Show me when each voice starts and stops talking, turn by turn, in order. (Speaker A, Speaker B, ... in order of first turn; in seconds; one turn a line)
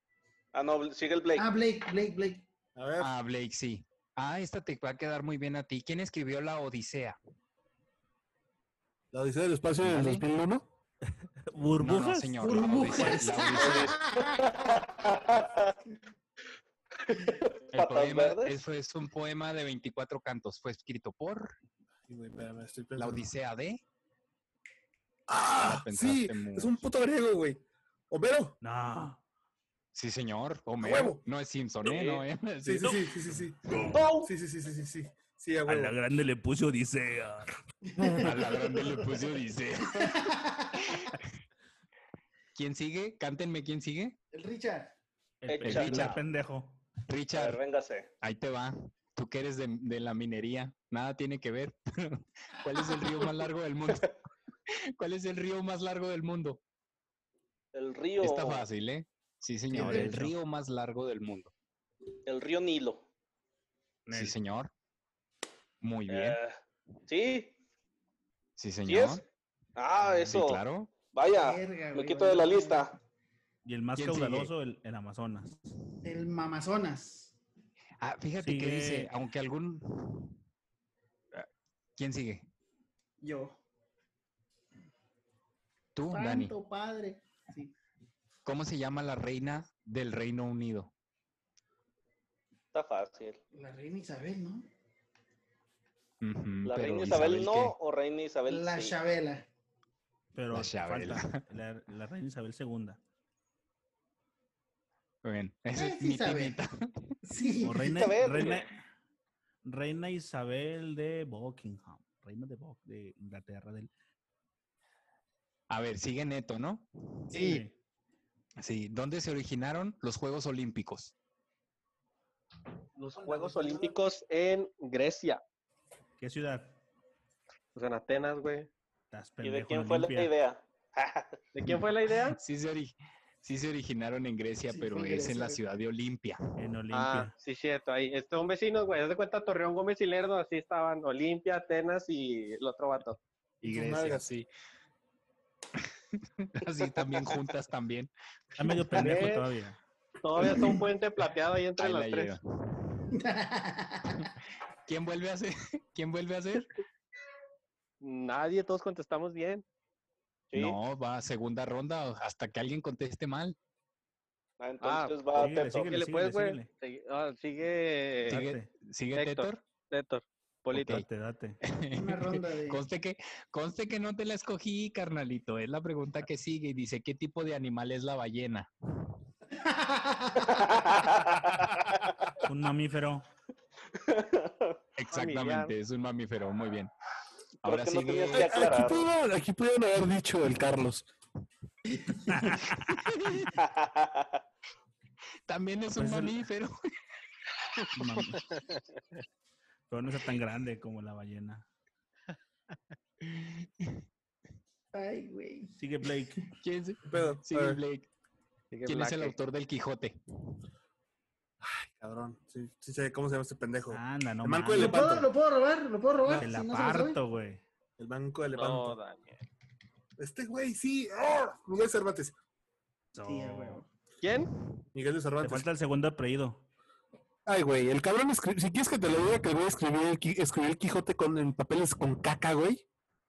Speaker A: 0.5-1.5
Speaker B: 1.4-2.5
Speaker C: 2.8-3.1
Speaker D: 3.0-7.2
Speaker C: 9.1-10.6
Speaker D: 9.8-10.2
Speaker E: 11.4-13.5
Speaker D: 11.8-14.0
Speaker B: 12.4-14.4
Speaker A: 13.5-15.7
Speaker A: 17.1-18.6
Speaker D: 17.7-21.5
Speaker C: 22.1-23.3
Speaker D: 22.9-23.8
Speaker C: 25.3-28.5
Speaker D: 25.6-26.8
Speaker E: 28.6-29.2
Speaker D: 29.9-33.2
Speaker C: 30.8-31.2
Speaker A: 31.8-32.2
Speaker C: 32.6-35.9
Speaker E: 33.7-34.0
Speaker A: 33.9-34.3
Speaker E: 35.6-37.5
Speaker B: 37.9-39.2
Speaker D: 38.2-41.3
Speaker B: 39.9-41.1
Speaker D: 42.5-44.2
Speaker B: 44.3-44.9
Speaker E: 45.4-46.8
Speaker A: 45.5-46.2
Speaker D: 45.6-46.2
Speaker D: 47.1-47.6
Speaker A: 47.3-48.1
Speaker D: 48.2-54.1
Speaker D: 55.0-56.6
Speaker A: 57.7-58.6
Speaker D: 58.2-61.5
Speaker E: 59.7-60.4
Speaker A: 62.2-63.0
Speaker E: 64.0-64.4
Speaker D: 64.1-64.7
Speaker D: 65.8-66.4
Speaker A: 66.1-67.5
Speaker D: 68.6-69.2
Speaker A: 68.8-69.2
Speaker A: 69.8-70.6
Speaker E: 70.0-70.3
Speaker D: 70.2-70.9
Speaker A: 71.1-72.9
Speaker B: 71.4-72.9
Speaker E: 73.6-75.7
Speaker D: 74.0-74.5
Speaker B: 76.0-77.3
Speaker D: 78.0-80.4
Speaker E: 78.4-79.1
Speaker D: 81.3-82.5
Speaker B: 83.2-83.6
Speaker D: 85.9-86.5
Speaker B: 86.1-87.7
Speaker D: 88.4-90.9
Speaker A: 92.7-93.4
Speaker B: 93.5-94.7
Speaker D: 96.2-97.7
Speaker A: 96.6-99.0
Speaker B: 98.5-99.5
Speaker E: 100.3-103.0
Speaker D: 100.5-101.4
Speaker D: 105.2-107.2
Speaker B: 105.7-106.6
Speaker B: 107.2-108.0
Speaker E: 107.6-108.7
Speaker A: 107.9-108.7
Speaker E: 109.6-113.9
Speaker D: 115.7-117.4
Speaker B: 117.3-117.6
Speaker E: 117.3-117.7
Speaker D: 118.6-121.1
Speaker F: 123.0-125.4
Speaker E: 126.2-126.8
Speaker F: 127.7-128.7
Speaker E: 129.1-130.3
Speaker A: 129.4-131.4
Speaker F: 131.5-132.4
Speaker D: 131.6-136.4
Speaker B: 134.7-135.6
Speaker E: 136.6-137.3
Speaker F: 136.9-143.2
Speaker C: 143.6-144.2
Speaker D: 143.6-144.5
Speaker D: 146.1-148.1
Speaker E: 148.6-149.8
Speaker F: 148.9-149.5
Speaker F: 150.2-152.4
Speaker D: 150.4-150.7
Speaker D: 151.8-152.4
Speaker B: 153.1-154.3
Speaker D: 154.8-156.7
Speaker F: 158.0-159.6
Speaker A: 160.5-160.8
Speaker D: 160.5-163.6
Speaker A: 164.6-165.9
Speaker F: 164.8-165.2
Speaker E: 165.3-166.7
Speaker F: 165.8-168.4
Speaker E: 168.3-168.7
Speaker D: 168.3-169.6
Speaker F: 169.1-171.0
Speaker D: 170.7-171.1
Speaker E: 170.9-171.6
Speaker D: 171.6-178.7
Speaker B: 171.9-172.8
Speaker B: 179.5-180.6
Speaker A: 180.4-182.0
Speaker E: 182.4-183.3
Speaker A: 184.0-184.8
Speaker D: 185.0-186.9
Speaker F: 185.1-185.7
Speaker D: 187.6-188.6
Speaker A: 187.6-189.1
Speaker C: 188.3-191.1
Speaker B: 191.9-192.7
Speaker E: 192.3-193.0
Speaker A: 193.6-194.4
Speaker D: 195.5-196.8
Speaker E: 195.9-196.4
Speaker E: 197.9-198.4
Speaker F: 198.5-199.2
Speaker E: 199.9-201.7
Speaker D: 203.2-204.0
Speaker B: 204.9-205.7
Speaker E: 205.7-206.4
Speaker D: 206.6-208.1
Speaker C: 207.0-207.8
Speaker F: 208.7-209.3
Speaker D: 208.8-210.2
Speaker C: 211.6-215.3
Speaker E: 213.9-215.1
Speaker B: 214.7-217.2
Speaker E: 216.3-217.6
Speaker C: 218.0-219.0
Speaker F: 218.5-219.4
Speaker C: 220.2-222.3
Speaker E: 223.1-223.8
Speaker B: 223.2-223.9
Speaker F: 224.2-224.5
Speaker C: 224.9-225.7
Speaker E: 225.4-226.6
Speaker C: 227.4-232.8